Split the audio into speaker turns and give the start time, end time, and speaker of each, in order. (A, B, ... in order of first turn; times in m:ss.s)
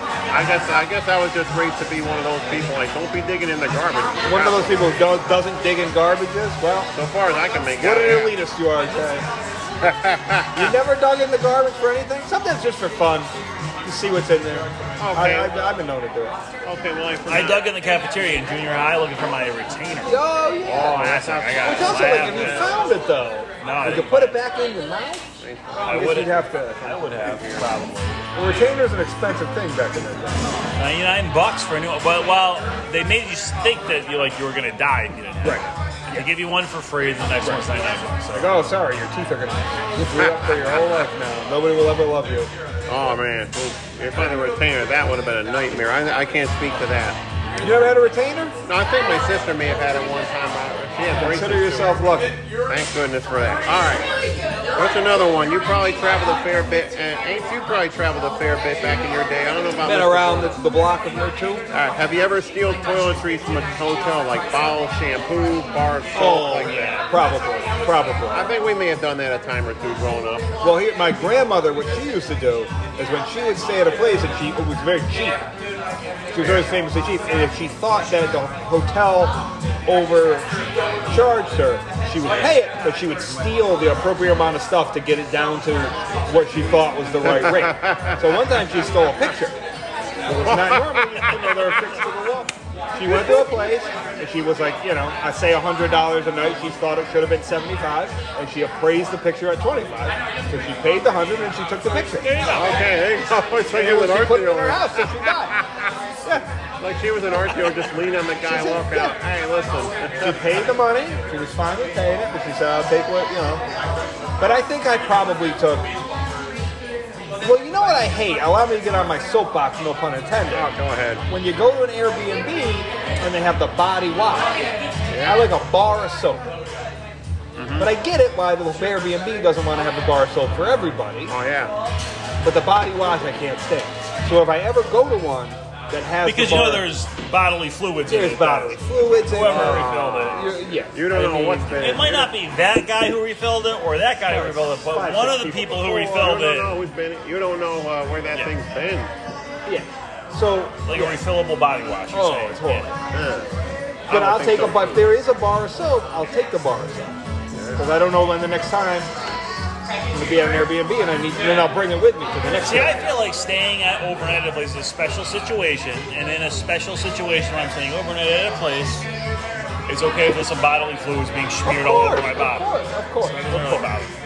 0:00.3-0:04.9 A
0:04.2-0:06.9 B
0:06.9-0:08.4 A
0:07.8-0:09.3 B
0:09.8-0:10.8 A
0:10.5-0:13.3 B
0:13.8-0:16.4 B
0:15.0-0:15.5 A
0:16.6-0:17.7 A
0:17.3-0:22.7 C
0:20.0-0:21.0 B
0:20.6-0:22.6 A
0:21.6-0:25.2 B
0:23.6-0:24.4 C
0:25.4-0:26.0 A
0:25.8-0:28.3 C
0:25.9-0:26.9 B
0:26.8-0:27.7 A
0:28.3-0:30.5 B
0:30.8-0:38.6 C
0:37.4-0:37.8 B
0:38.3-0:42.5 B
0:40.1-0:41.0 A
0:42.9-0:47.2 A
0:47.6-0:48.5 B
0:48.6-0:52.0 A
0:51.1-0:52.3 B
0:52.7-0:54.1 A
0:54.7-1:00.6 A
0:59.8-1:01.6 B
1:01.7-1:07.0 A
1:06.1-1:08.5 B
1:08.3-1:10.5 A
1:10.6-1:15.4 B
1:16.3-1:20.5 B
1:16.4-1:16.7 A
1:21.1-1:29.6 B
1:27.2-1:28.4 A
1:30.2-1:42.5 B
1:30.4-1:32.0 A
1:33.0-1:33.5 A
1:42.3-1:42.8 C
1:42.4-1:45.9 A
1:43.7-1:45.6 B
1:46.8-1:50.6 A
1:48.4-1:49.2 B
1:50.2-1:53.6 B
1:54.4-1:55.9 B
1:57.4-2:00.8 B
2:00.5-2:01.2 A
2:01.3-2:04.6 B
2:05.1-2:05.5 A
2:05.2-2:06.5 B
2:07.5-2:07.9 A
2:07.8-2:11.3 B
2:11.3-2:11.7 A
2:12.4-2:16.9 B
2:16.2-2:20.6 C
2:18.1-2:21.9 B
2:19.4-2:22.3 A
2:21.8-2:26.8 C
2:24.2-2:26.3 B
2:26.1-2:29.1 A
2:29.6-2:31.2 B
2:30.8-2:32.9 C
2:32.1-2:32.9 B
2:33.1-2:33.5 A
2:34.1-2:35.1 A
2:34.1-2:37.2 B
2:37.5-2:37.9 A
2:37.8-2:39.1 B
2:40.1-2:43.0 B
2:42.6-2:49.0 C
2:49.9-2:52.7 C
2:51.6-2:53.9 B
2:53.2-2:54.1 C